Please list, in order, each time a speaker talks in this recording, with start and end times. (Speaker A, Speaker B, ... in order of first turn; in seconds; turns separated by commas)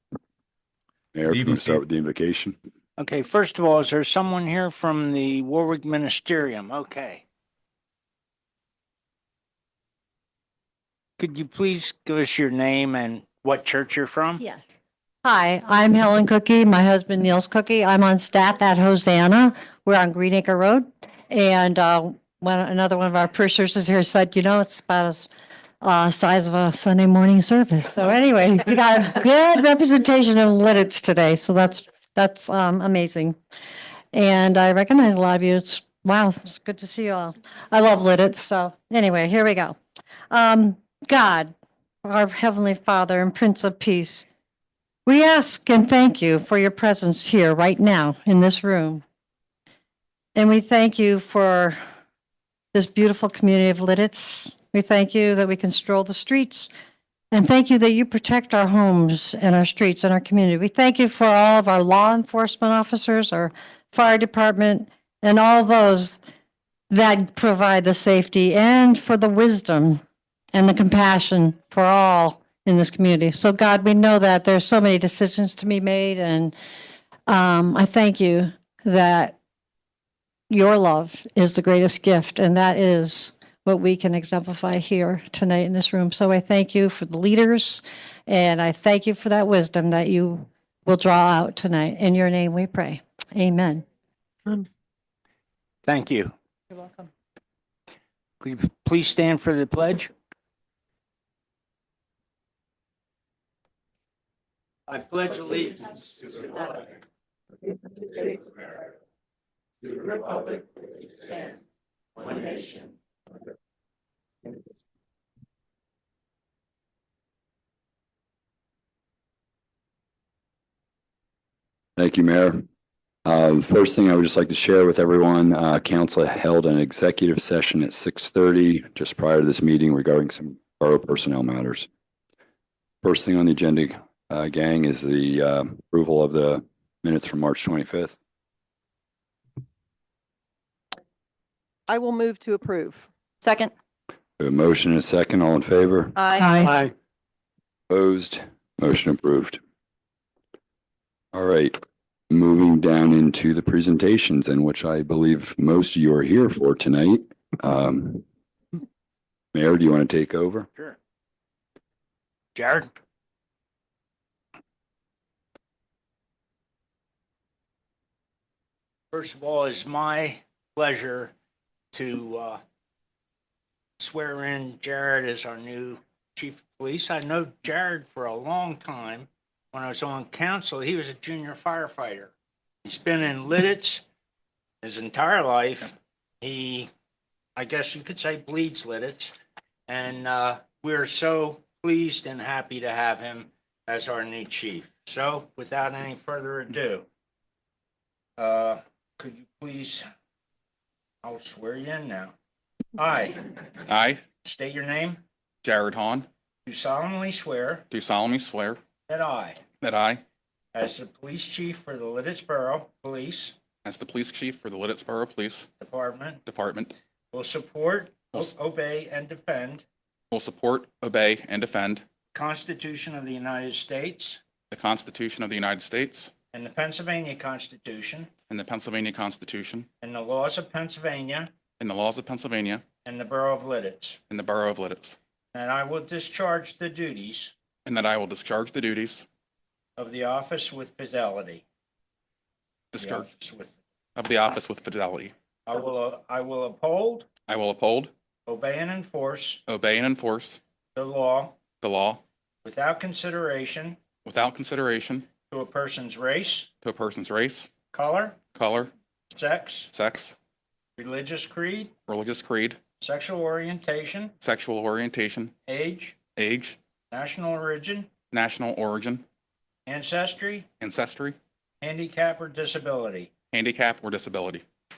Speaker A: 1.1-2.6, Speaker B: 1.3-1.8, Speaker B: 3.0-7.2, Speaker B: 11.2-14.4, Speaker C: 14.4-25.3, Speaker C: 25.8-33.4, Speaker C: 34.1-39.8, Speaker C: 40.3-41.5, Speaker C: 42.0-44.3, Speaker C: 45.0-49.0, Speaker C: 50.3-51.8, Speaker C: 52.7-56.7, Speaker C: 57.3-66.2, Speaker C: 66.9-70.0, Speaker C: 70.5-76.5, Speaker C: 77.3-79.4, Speaker C: 80.5-93.8, Speaker B: 95.8-96.3, Speaker C: 96.7-97.1, Speaker B: 98.4-100.1, Speaker B: 104.9-106.7, Speaker B: 112.2-112.7, Speaker A: 122.0-122.6, Speaker A: 123.2-131.9, Speaker A: 133.0-138.2, Speaker D: 141.9-143.7, Speaker A: 144.4-146.2, Speaker D: 146.2-146.9, Speaker C: 146.4-146.8, Speaker A: 147.9-149.6, Speaker A: 151.3-151.8, Speaker A: 152.3-158.2, Speaker A: 159.5-160.7, Speaker B: 162.5-162.9, Speaker B: 169.1-171.3, Speaker B: 171.9-172.6, Speaker B: 174.0-182.3, Speaker B: 182.8-184.0, Speaker B: 184.8-186.9, Speaker B: 187.6-189.3, Speaker B: 189.9-197.1, Speaker B: 198.4-200.1, Speaker B: 201.2-202.3, Speaker B: 202.9-203.4, Speaker E: 203.9-204.2, Speaker B: 204.4-205.2, Speaker E: 205.6-206.3, Speaker B: 206.7-207.8, Speaker E: 207.9-208.8, Speaker B: 209.1-209.6, Speaker E: 209.8-210.2, Speaker B: 210.7-213.5, Speaker E: 213.8-215.7, Speaker B: 215.8-216.4, Speaker E: 216.4-216.9, Speaker B: 217.3-219.8, Speaker E: 220.3-222.0, Speaker B: 222.3-224.4, Speaker E: 224.7-226.3, Speaker B: 226.5-228.3, Speaker E: 228.5-229.9, Speaker B: 230.0-231.5, Speaker E: 231.8-232.8, Speaker B: 233.0-234.2, Speaker E: 234.3-235.2, Speaker B: 235.5-237.5, Speaker E: 237.8-239.2, Speaker B: 240.0-241.6, Speaker E: 242.9-243.3, Speaker B: 243.0-243.7, Speaker E: 244.2-245.3, Speaker B: 245.7-247.3, Speaker E: 247.5-248.1, Speaker B: 248.5-249.6, Speaker E: 249.7-250.6, Speaker B: 250.9-251.6, Speaker E: 251.8-252.2, Speaker B: 252.6-254.0, Speaker E: 254.2-255.3, Speaker B: 255.5-256.7, Speaker E: 256.8-257.7, Speaker B: 257.9-258.4, Speaker E: 258.6-258.9, Speaker B: 259.3-259.9, Speaker E: 259.9-260.4, Speaker B: 261.0-261.9, Speaker E: 262.1-262.8, Speaker B: 263.0-264.3, Speaker E: 264.4-265.6, Speaker B: 265.7-266.2, Speaker E: 266.4-266.8, Speaker B: 267.1-268.1, Speaker E: 268.3-269.2, Speaker B: 269.9-270.7, Speaker E: 270.8-271.4, Speaker B: 271.8-273.3, Speaker E: 273.5-274.6